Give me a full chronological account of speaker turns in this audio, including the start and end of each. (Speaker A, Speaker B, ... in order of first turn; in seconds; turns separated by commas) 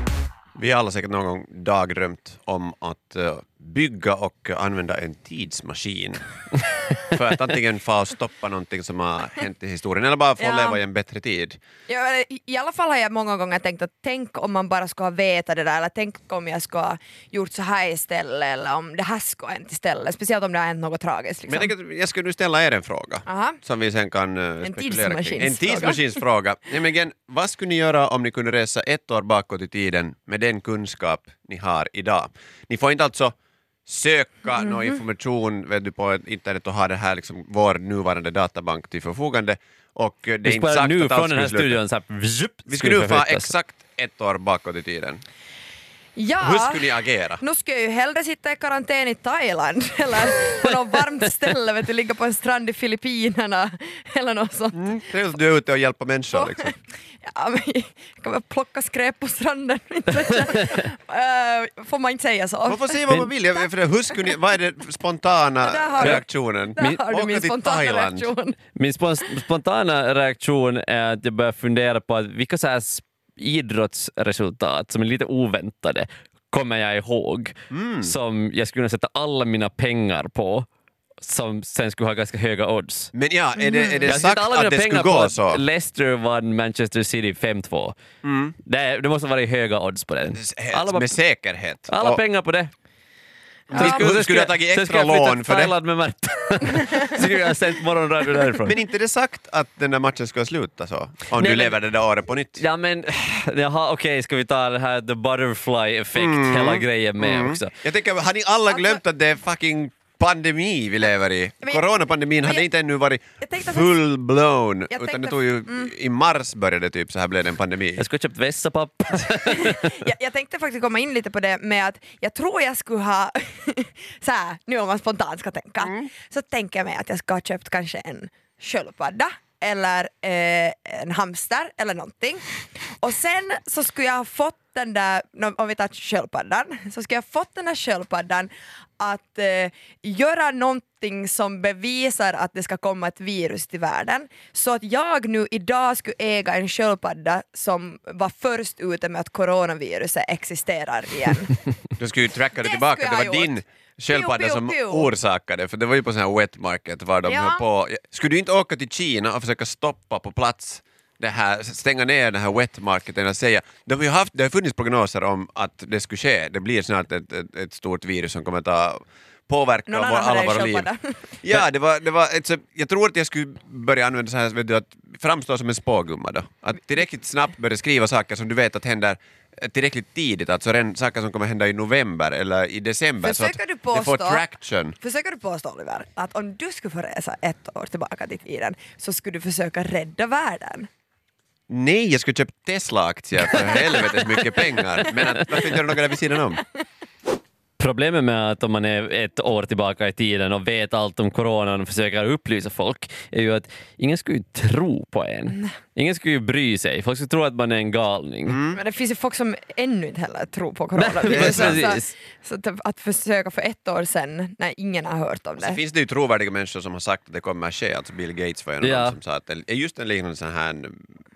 Speaker A: 0.6-6.2, Speaker A: 7.0-11.6, Speaker B: 10.4-10.8, Speaker B: 11.9-21.7, Speaker A: 21.5-33.3, Speaker B: 23.2-23.6, Speaker B: 24.6-26.1, Speaker A: 33.9-41.8, Speaker B: 34.6-35.0, Speaker C: 40.4-43.5, Speaker A: 42.7-45.2, Speaker B: 46.1-54.9, Speaker A: 46.4-47.4, Speaker A: 54.7-56.7, Speaker B: 56.3-56.7, Speaker B: 57.2-63.0, Speaker A: 62.6-68.3, Speaker B: 65.6-68.6, Speaker C: 66.8-67.0, Speaker C: 68.8-80.7, Speaker A: 77.7-78.1, Speaker C: 81.2-83.1, Speaker A: 83.1-85.6, Speaker B: 83.6-84.1, Speaker C: 84.0-88.0, Speaker A: 88.2-88.5, Speaker C: 88.6-91.2, Speaker A: 90.3-92.2, Speaker C: 91.9-92.7, Speaker A: 93.7-95.7, Speaker C: 93.7-98.8, Speaker A: 98.6-102.7, Speaker C: 101.4-101.8, Speaker C: 102.6-107.7, Speaker A: 106.1-118.0, Speaker B: 108.7-109.0, Speaker B: 112.4-112.7, Speaker B: 113.4-114.0, Speaker B: 114.9-115.9, Speaker C: 118.0-120.0, Speaker B: 119.5-132.4, Speaker A: 125.8-126.1, Speaker B: 133.0-151.6, Speaker A: 152.0-170.9, Speaker B: 152.6-153.6, Speaker B: 154.1-155.1, Speaker B: 157.2-157.6, Speaker B: 169.9-171.1, Speaker A: 171.4-184.9, Speaker B: 183.2-184.4, Speaker B: 185.0-190.9, Speaker A: 191.7-196.6, Speaker B: 193.5-195.1, Speaker C: 197.8-208.6, Speaker A: 208.4-208.8, Speaker B: 208.7-215.8, Speaker C: 210.9-212.1, Speaker A: 211.3-211.9, Speaker A: 215.6-221.1, Speaker C: 218.8-219.2